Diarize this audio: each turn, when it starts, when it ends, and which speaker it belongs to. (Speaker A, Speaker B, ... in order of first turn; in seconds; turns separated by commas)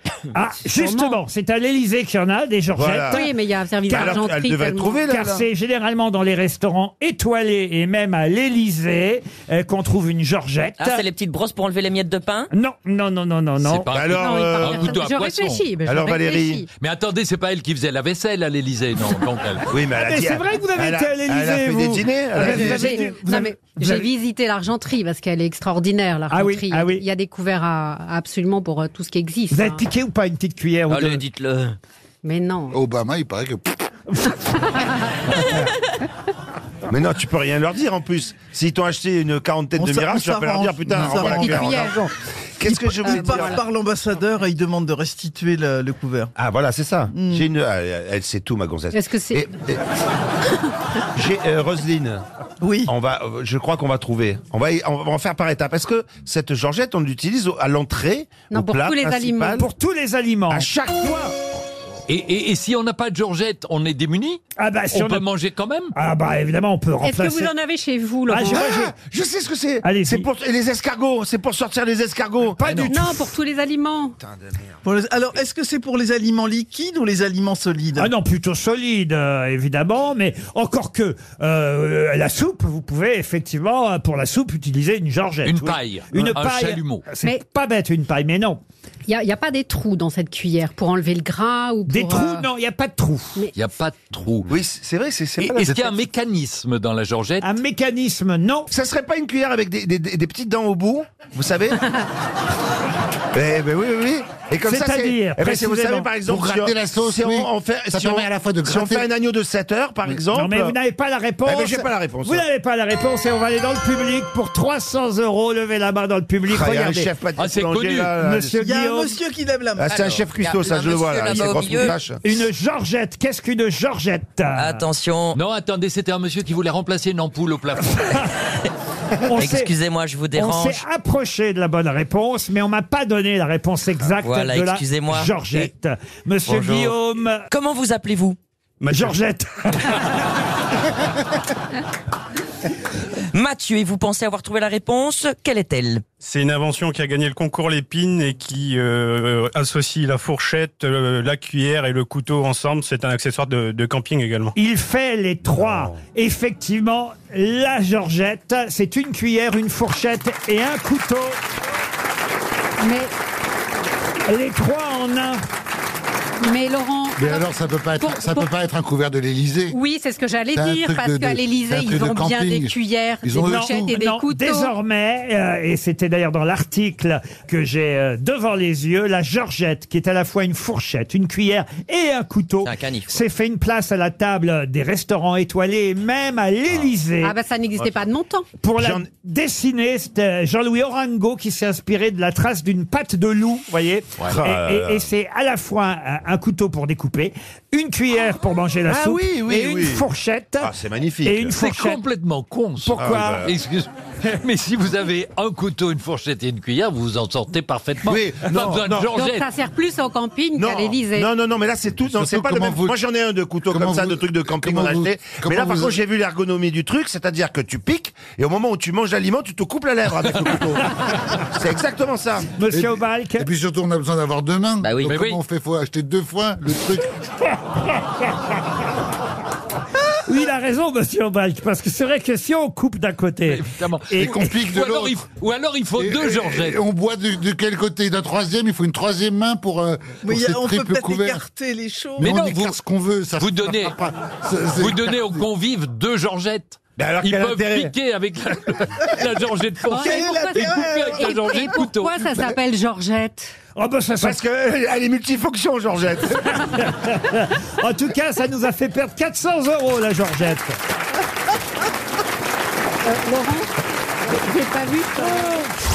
Speaker A: 0.3-3.3, Speaker B: 0.7-1.2, Speaker C: 2.7-3.2, Speaker B: 3.0-5.1, Speaker C: 3.9-5.5, Speaker A: 3.9-4.2, Speaker A: 5.1-11.0, Speaker D: 10.8-12.5, Speaker A: 12.5-13.9, Speaker E: 13.6-15.7, Speaker C: 13.9-14.9, Speaker B: 14.1-16.7, Speaker C: 15.8-16.6, Speaker E: 16.8-19.7, Speaker C: 19.7-23.1, Speaker A: 20.0-24.1, Speaker B: 22.4-29.8, Speaker A: 26.3-27.0, Speaker A: 29.5-31.2, Speaker D: 30.9-31.8, Speaker B: 32.2-32.8, Speaker F: 32.7-33.7, Speaker B: 34.8-35.1, Speaker C: 36.9-42.1, Speaker G: 39.8-41.9, Speaker B: 41.2-42.0, Speaker C: 42.6-43.6, Speaker G: 42.6-46.3, Speaker B: 43.0-43.6, Speaker C: 46.4-49.8, Speaker G: 47.1-47.5, Speaker B: 48.9-49.5, Speaker C: 51.1-52.2, Speaker G: 52.6-52.9, Speaker C: 52.9-59.6, Speaker B: 58.5-59.6, Speaker A: 59.5-60.7, Speaker C: 60.5-61.3, Speaker E: 62.1-65.9, Speaker A: 64.6-65.2, Speaker A: 65.9-67.5, Speaker B: 67.0-68.8, Speaker A: 68.3-68.9, Speaker C: 68.4-73.0, Speaker A: 69.8-70.3, Speaker A: 72.6-73.2, Speaker B: 72.9-74.2, Speaker G: 74.8-78.1, Speaker A: 78.0-88.6, Speaker E: 85.4-87.0, Speaker B: 89.1-92.5, Speaker A: 91.9-93.4, Speaker E: 93.5-94.5, Speaker C: 94.5-95.9, Speaker E: 95.4-97.5, Speaker A: 97.4-98.7, Speaker C: 98.7-101.8, Speaker C: 103.3-110.8, Speaker A: 104.6-106.1, Speaker F: 106.2-109.1, Speaker A: 110.3-117.1, Speaker C: 111.4-112.4, Speaker C: 116.5-118.5, Speaker E: 117.4-118.2, Speaker A: 118.2-119.1, Speaker G: 118.5-120.0, Speaker C: 119.8-122.2, Speaker D: 119.8-122.0, Speaker A: 122.2-124.8, Speaker D: 124.5-125.4, Speaker E: 125.3-128.3, Speaker A: 129.3-129.7, Speaker D: 129.3-130.8, Speaker A: 130.3-137.4, Speaker D: 134.2-135.3, Speaker D: 137.5-138.4, Speaker A: 138.9-139.9, Speaker D: 143.3-146.0, Speaker H: 146.2-154.5, Speaker A: 154.6-161.4, Speaker B: 162.8-163.1, Speaker A: 164.3-165.4, Speaker B: 166.4-168.5, Speaker F: 167.2-169.8, Speaker B: 169.7-174.7, Speaker F: 170.5-173.9, Speaker A: 173.4-187.3, Speaker D: 182.6-183.2, Speaker B: 187.2-188.5, Speaker A: 188.6-200.7, Speaker C: 188.8-189.1, Speaker C: 194.2-195.1, Speaker C: 198.9-200.1, Speaker C: 200.6-201.5, Speaker A: 201.2-202.0, Speaker E: 201.6-209.5, Speaker A: 202.8-203.4, Speaker C: 202.9-203.5, Speaker C: 208.0-209.1, Speaker B: 209.1-211.3, Speaker C: 210.6-222.5, Speaker F: 212.1-213.0, Speaker F: 213.7-216.0, Speaker A: 222.6-223.5, Speaker F: 222.7-227.1, Speaker D: 224.8-225.2, Speaker E: 225.1-225.4, Speaker A: 230.2-234.4, Speaker E: 233.5-236.8, Speaker F: 234.1-235.2, Speaker F: 236.0-241.4, Speaker G: 240.2-242.3, Speaker F: 242.2-245.4, Speaker E: 242.2-242.8, Speaker E: 243.4-243.9, Speaker E: 244.8-252.3, Speaker C: 247.0-247.9, Speaker G: 249.9-251.6, Speaker B: 249.9-253.5, Speaker A: 253.8-254.4, Speaker C: 254.2-256.6, Speaker A: 256.7-260.8, Speaker B: 263.0-263.7, Speaker B: 264.2-265.7